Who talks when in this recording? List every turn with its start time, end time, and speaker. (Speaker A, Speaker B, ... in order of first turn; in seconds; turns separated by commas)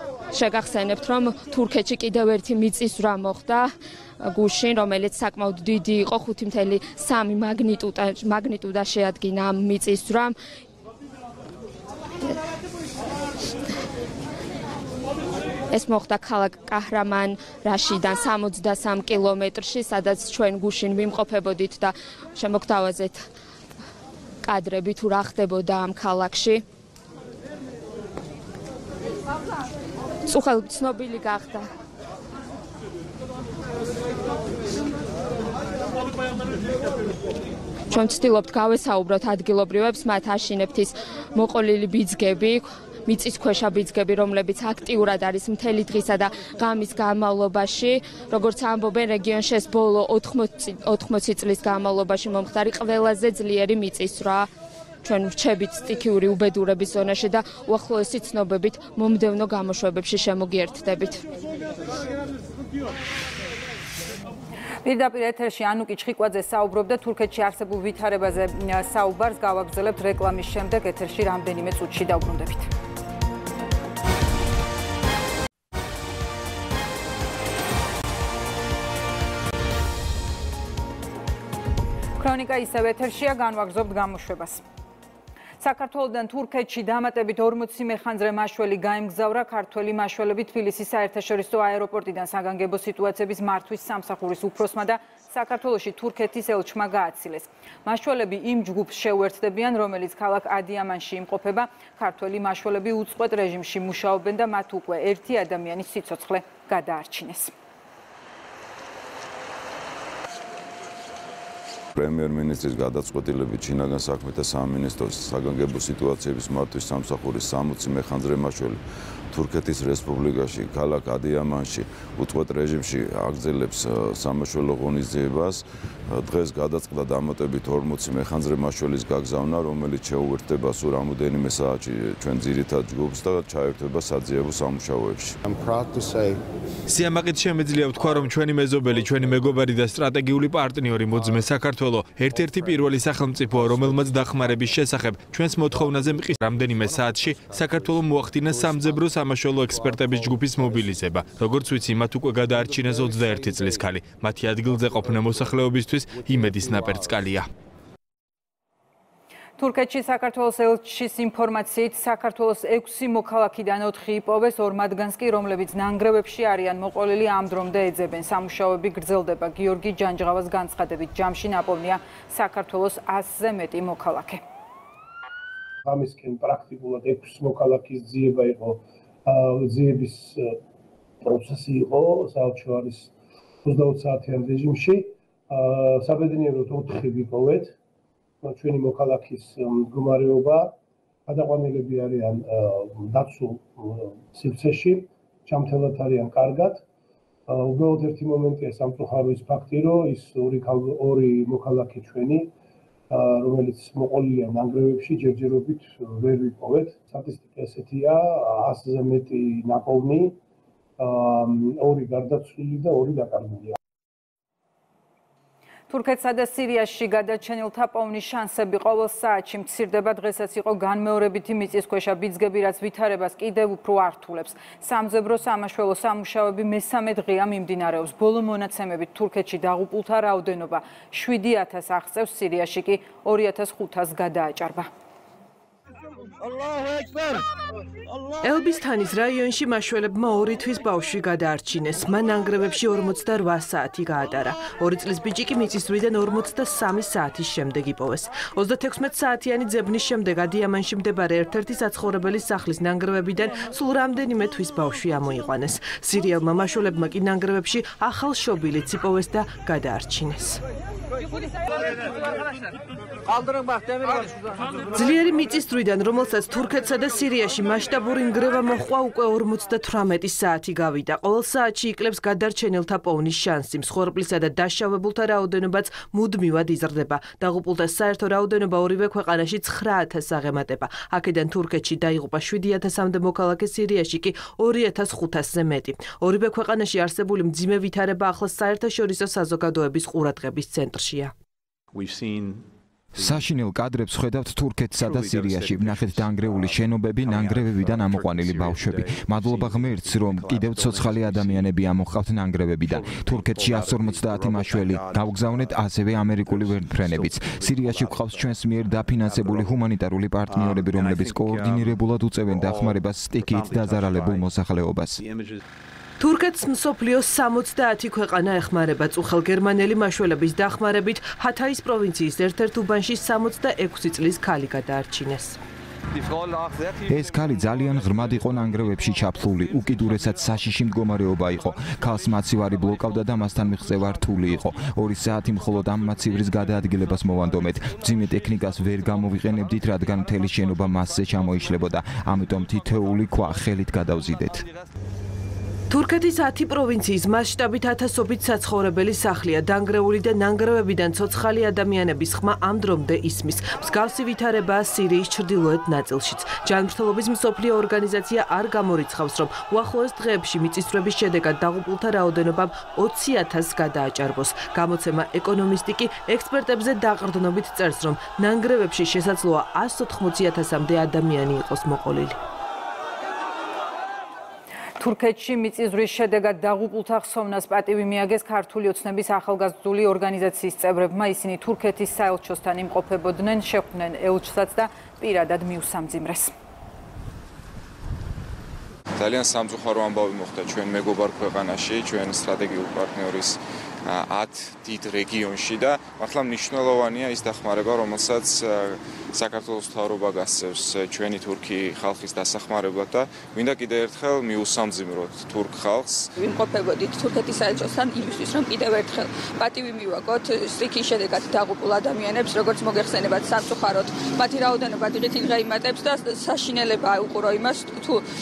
Speaker A: 0.3-10.3, Speaker A: 15.7-23.2, Speaker A: 24.4-26.6, Speaker A: 30.3-31.7, Speaker A: 37.9-54.5, Speaker A: 55.0-61.2, Speaker B: 64.8-72.7, Speaker B: 82.2-84.6, Speaker B: 85.6-107.5, Speaker C: 112.0-118.8, Speaker C: 119.3-135.4, Speaker D: 136.9-157.5, Speaker B: 159.6-174.4, Speaker E: 175.8-180.6, Speaker E: 181.2-183.1, Speaker E: 183.6-187.7, Speaker E: 188.4-190.7, Speaker E: 191.3-196.8, Speaker E: 197.5-202.5, Speaker E: 203.1-210.4, Speaker E: 211.0-213.7, Speaker B: 215.9-234.9, Speaker F: 238.4-260.6, Speaker F: 264.9-291.3, Speaker G: 293.1-315.2, Speaker F: 316.2-325.6, Speaker G: 327.1-344.6, Speaker F: 345.9-372.4, Speaker B: 375.0-386.5, Speaker H: 389.1-406.3, Speaker I: 406.4-409.0, Speaker I: 409.6-410.2, Speaker I: 410.9-414.7